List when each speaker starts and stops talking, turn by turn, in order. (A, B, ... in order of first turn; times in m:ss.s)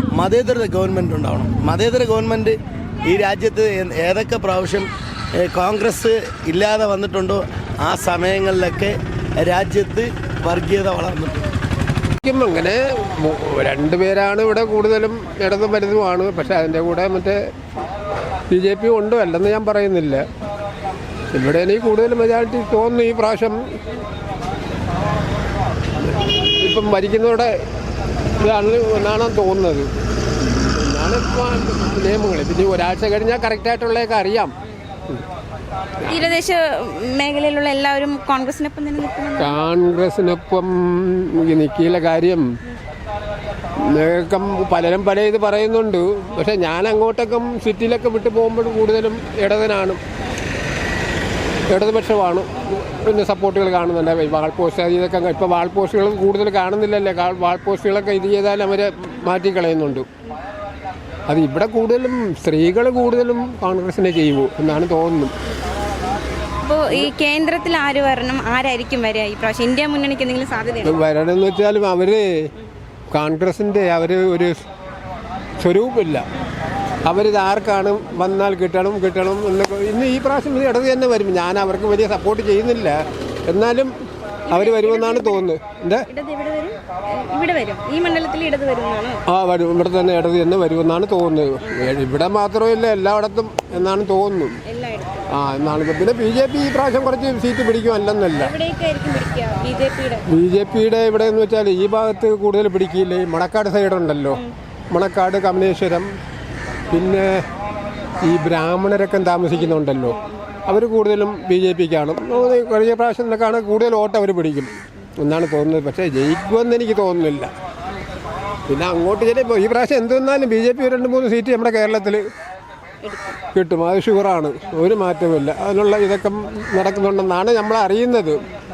0:00.2-0:11.4 A
0:12.2-0:17.4 B
0:18.5-0:20.3 B
0:21.3-0:23.6 B
0:26.1-0:27.5 B
0:28.4-0:29.9 B
0:30.5-0:34.5 B
0:36.1-0:39.6 C
0:39.4-0:42.4 B
0:43.9-0:50.0 B
0:51.7-1:00.1 B
1:01.3-1:05.3 B
1:06.6-1:11.0 C
1:10.8-1:12.3 B
1:13.1-1:14.6 B
1:15.6-1:16.2 B
1:17.1-1:23.9 B
1:24.5-1:25.4 C
1:24.5-1:26.1 B
1:26.1-1:29.2 C
1:29.3-1:34.6 B
1:31.7-1:32.0 C
1:34.7-1:35.2 C
1:35.3-1:38.5 B
1:38.4-1:40.2 C
1:40.3-1:46.1 B
1:46.9-1:47.4 B
1:48.2-1:57.5 B
1:58.7-2:02.2 B
2:03.0-2:03.4 C
2:03.6-2:08.4 B